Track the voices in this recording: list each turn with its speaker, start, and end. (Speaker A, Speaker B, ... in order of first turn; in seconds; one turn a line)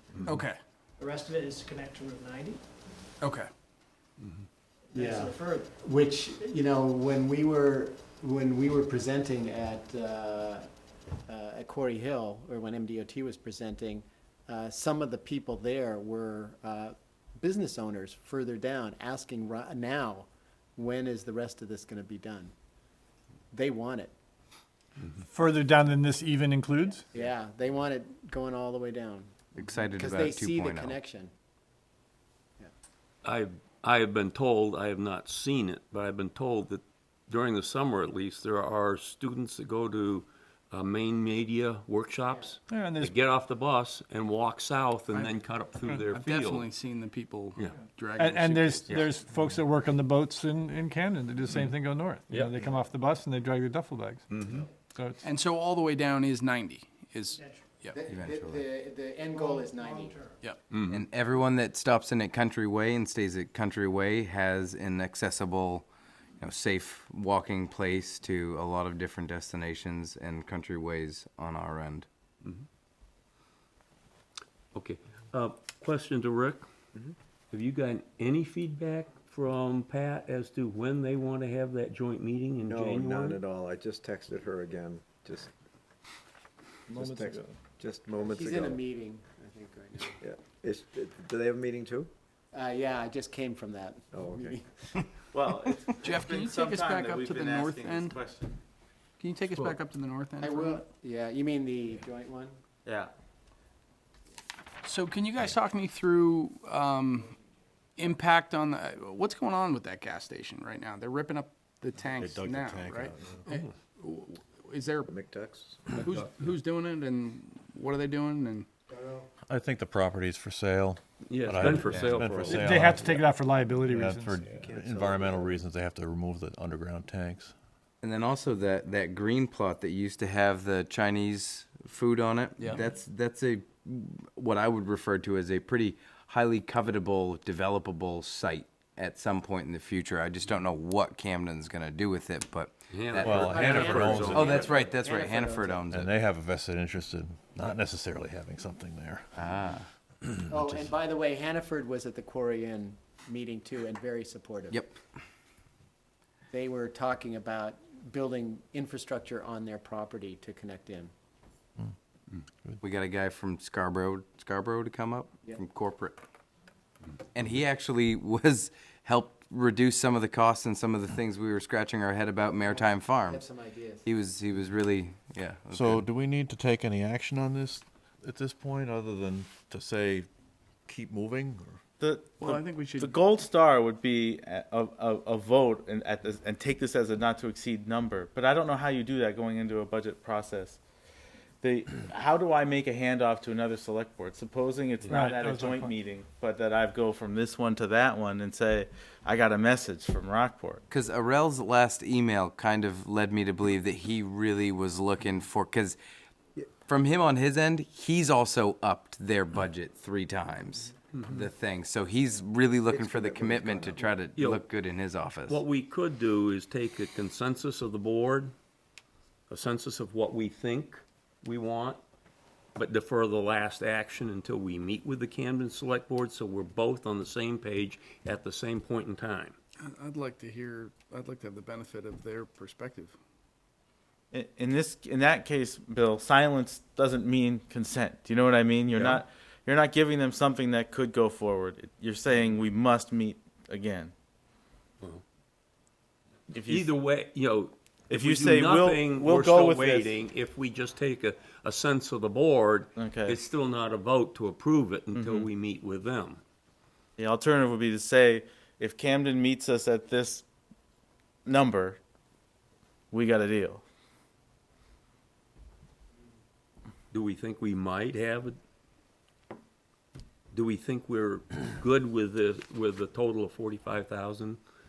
Speaker A: 0.2-0.6
Speaker B: 1.0-2.6
Speaker A: 3.2-3.5
Speaker B: 4.9-5.8
Speaker C: 4.9-10.7
Speaker C: 11.3-22.5
Speaker C: 23.5-24.1
Speaker D: 25.3-27.1
Speaker C: 27.1-29.3
Speaker E: 29.5-31.0
Speaker C: 29.9-31.3
Speaker F: 33.2-46.7
Speaker D: 42.7-43.1
Speaker A: 46.1-49.0
Speaker D: 48.2-54.2
Speaker F: 52.3-52.6
Speaker F: 54.3-54.7
Speaker A: 55.2-58.0
Speaker B: 57.3-57.6
Speaker C: 57.9-60.2
Speaker E: 58.1-58.7
Speaker B: 59.3-60.4
Speaker F: 60.7-61.0
Speaker E: 60.9-65.8
Speaker E: 66.4-72.1
Speaker F: 74.7-76.7
Speaker F: 77.5-83.4
Speaker G: 82.6-85.5
Speaker G: 86.9-88.8
Speaker D: 86.9-87.3
Speaker C: 88.2-90.2
Speaker G: 90.2-92.1
Speaker C: 92.5-95.0
Speaker G: 94.1-94.6
Speaker H: 95.3-98.5
Speaker A: 96.0-98.2
Speaker A: 99.2-100.8
Speaker C: 100.4-102.5
Speaker H: 102.8-103.1
Speaker A: 104.8-107.3
Speaker A: 108.0-115.1
Speaker I: 112.2-113.0
Speaker G: 115.1-115.8
Speaker A: 115.9-118.7
Speaker C: 118.9-119.2
Speaker I: 119.5-123.2
Speaker F: 121.2-123.1
Speaker D: 121.7-124.5
Speaker I: 123.9-127.5
Speaker G: 124.4-125.7
Speaker E: 128.0-143.6
Speaker A: 132.6-132.8
Speaker F: 142.9-144.7
Speaker C: 143.2-145.9
Speaker I: 143.2-144.2
Speaker D: 143.8-144.3
Speaker E: 144.2-146.1
Speaker I: 145.9-149.2
Speaker E: 149.3-149.9
Speaker C: 150.5-154.8
Speaker E: 154.7-155.0
Speaker C: 156.5-161.1
Speaker E: 162.8-166.2
Speaker E: 167.3-173.4
Speaker C: 172.6-174.0
Speaker E: 174.0-176.1
Speaker I: 175.7-180.2
Speaker D: 175.8-177.8
Speaker I: 180.9-181.8
Speaker H: 182.0-190.8
Speaker A: 182.4-183.2
Speaker H: 191.6-200.8
Speaker D: 195.1-195.9
Speaker E: 200.9-206.0
Speaker E: 206.8-215.6
Speaker F: 211.1-211.4
Speaker G: 212.9-214.1
Speaker F: 214.3-214.7
Speaker F: 215.4-218.5
Speaker F: 219.5-222.0
Speaker F: 222.8-229.6
Speaker A: 229.8-233.1
Speaker H: 234.3-244.1
Speaker H: 246.5-246.9
Speaker F: 246.5-256.4
Speaker H: 248.1-250.1
Speaker H: 252.9-253.4
Speaker H: 255.1-255.5
Speaker H: 257.2-260.4
Speaker H: 261.4-262.0
Speaker H: 263.1-263.8
Speaker F: 267.1-268.6
Speaker F: 270.5-274.6